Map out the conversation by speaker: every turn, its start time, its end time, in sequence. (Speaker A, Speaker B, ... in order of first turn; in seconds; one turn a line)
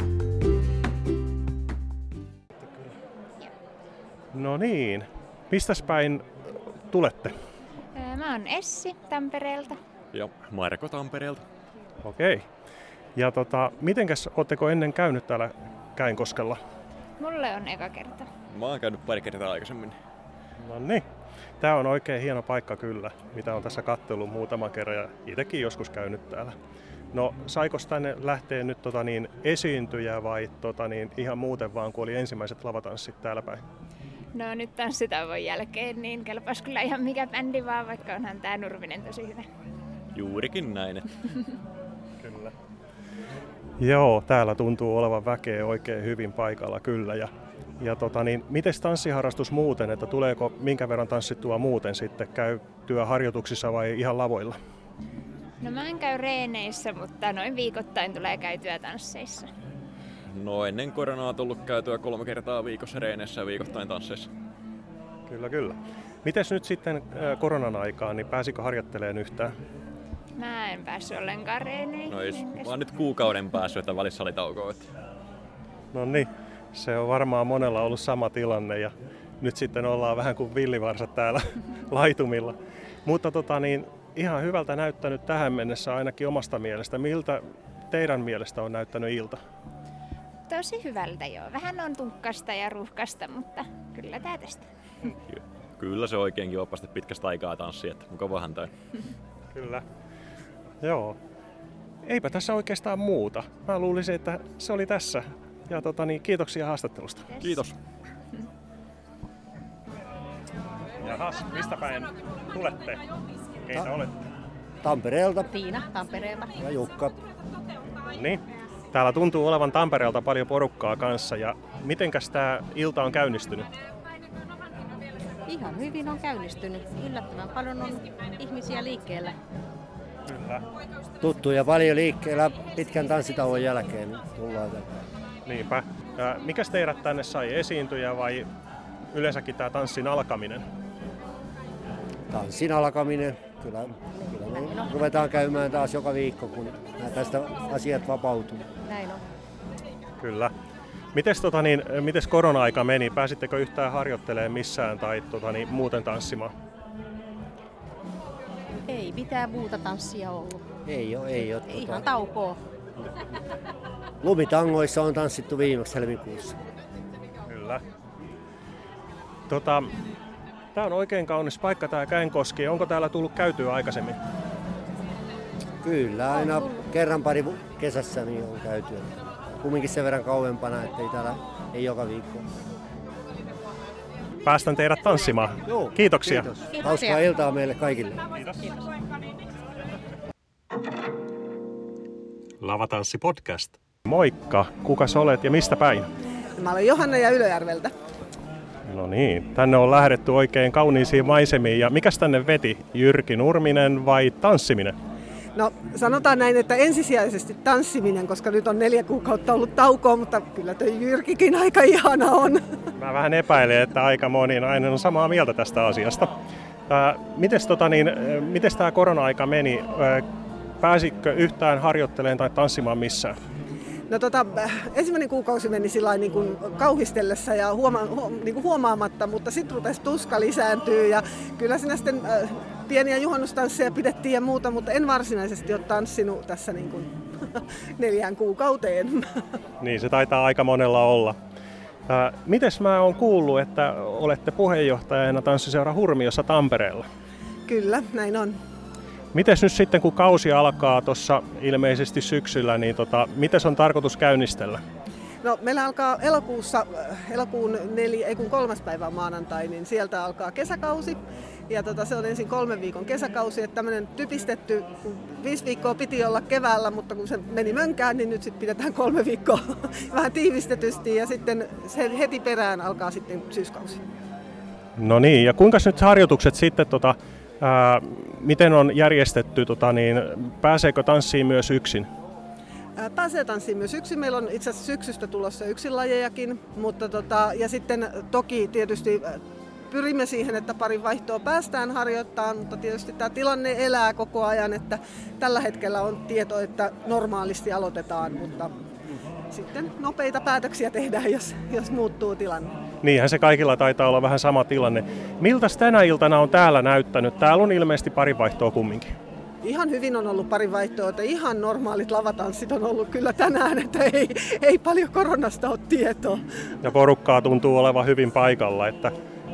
Speaker A: 2.6-2.9
Speaker A: 4.3-7.3
Speaker B: 8.0-9.8
Speaker C: 10.1-11.5
Speaker A: 12.0-12.5
Speaker A: 13.2-16.6
Speaker B: 17.2-18.3
Speaker C: 18.5-20.0
Speaker A: 20.6-21.0
Speaker A: 21.6-26.5
Speaker A: 27.1-33.6
Speaker B: 34.3-39.5
Speaker C: 40.1-41.1
Speaker A: 42.2-42.5
Speaker A: 43.8-47.3
Speaker A: 47.8-54.5
Speaker B: 55.6-59.5
Speaker C: 60.3-64.3
Speaker A: 65.3-69.5
Speaker B: 70.4-72.7
Speaker C: 72.1-74.9
Speaker A: 75.9-78.9
Speaker A: 79.4-89.4
Speaker B: 90.5-94.7
Speaker C: 95.3-98.7
Speaker A: 99.5-99.8
Speaker A: 100.8-101.2
Speaker A: 102.0-107.4
Speaker C: 107.4-107.8
Speaker A: 111.0-113.0
Speaker A: 113.7-114.2
Speaker D: 114.8-115.6
Speaker D: 116.5-117.1
Speaker A: 118.1-118.4
Speaker A: 118.9-123.7
Speaker E: 125.5-129.3
Speaker A: 130.3-130.6
Speaker D: 131.2-134.9
Speaker A: 135.5-138.5
Speaker A: 139.1-140.6
Speaker D: 142.3-148.7
Speaker A: 150.2-150.5
Speaker A: 151.2-156.5
Speaker E: 158.9-160.6
Speaker D: 160.8-162.1
Speaker D: 164.2-166.6
Speaker A: 167.5-167.8
Speaker A: 169.5-169.9
Speaker A: 170.8-174.2
Speaker D: 175.8-182.4
Speaker A: 184.4-186.5
Speaker D: 185.7-188.3
Speaker C: 192.9-193.7
Speaker A: 194.1-196.1
Speaker F: 196.6-197.9
Speaker A: 198.9-204.9
Speaker F: 205.6-212.6
Speaker A: 213.0-216.3
Speaker A: 216.9-220.2
Speaker A: 220.8-223.3
Speaker F: 224.1-239.2
Speaker A: 239.8-241.4
Speaker A: 242.1-247.1
Speaker F: 247.7-248.6
Speaker A: 249.3-254.8
Speaker F: 255.4-261.2
Speaker F: 261.7-274.0
Speaker A: 275.0-282.1
Speaker F: 283.0-298.7
Speaker F: 299.5-302.7
Speaker A: 303.0-309.1
Speaker F: 309.6-316.4
Speaker A: 316.8-319.1